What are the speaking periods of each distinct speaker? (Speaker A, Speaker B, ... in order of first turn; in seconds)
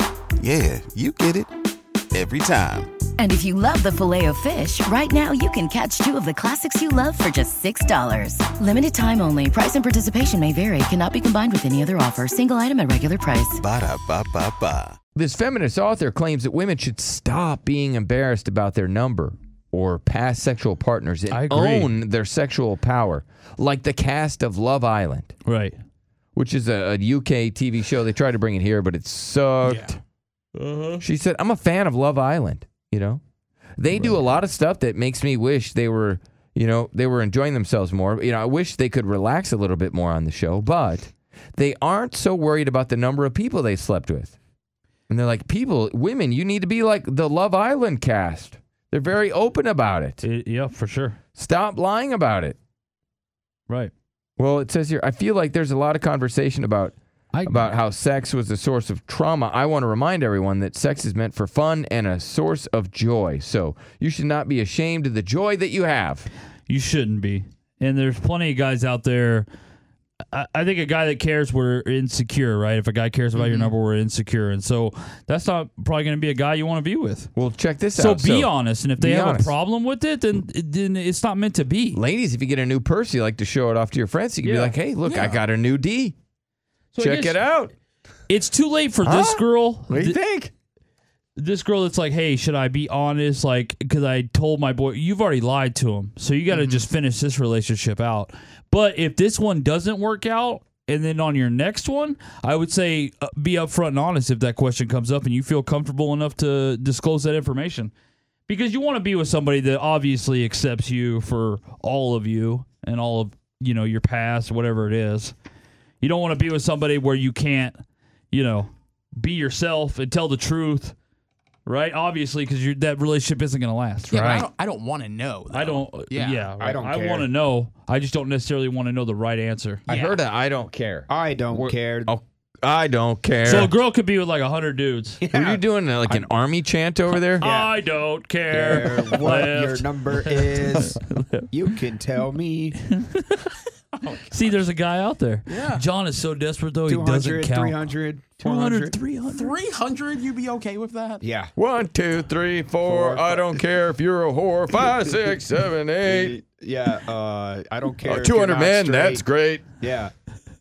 Speaker A: 0.4-1.5, 2.1-2.9, 13.5-15.0
Speaker B: 3.2-13.6
Speaker C: 15.2-25.3, 26.4-30.0, 31.0-33.2, 33.8-44.4, 45.1-50.2, 51.4-52.6, 54.4-66.3, 77.3-79.5, 81.9-86.2, 87.0-87.7, 89.0-90.5, 124.2-124.5, 129.9-133.7, 135.3-137.4, 151.6-156.4, 158.1-159.7
Speaker D: 21.3-21.9, 25.4-25.8, 30.6-31.0, 50.2-51.2, 53.7-53.9, 57.3-57.7, 66.7-69.5, 70.3-77.3, 77.9-82.0, 84.4-85.3, 87.0-87.4, 88.3-90.2, 91.4-107.9, 108.5-115.3, 116.0-117.8, 118.3-120.9, 121.7-124.3, 125.5-129.8, 133.4-135.2, 137.4-141.5, 142.9-143.4, 144.2-147.8, 148.4-149.6
Speaker E: 29.6-30.0, 73.4-73.7, 96.5-96.8, 124.1-126.5, 129.9-130.2, 144.0-144.2, 145.5-145.8, 149.3-151.3
Speaker F: 126.6-127.3, 131.1-132.1, 135.2-136.3, 137.4-137.7, 138.5-141.0, 141.5-142.8, 146.9-149.0, 151.2-151.5, 152.8-153.4, 156.1-159.2, 159.8-160.1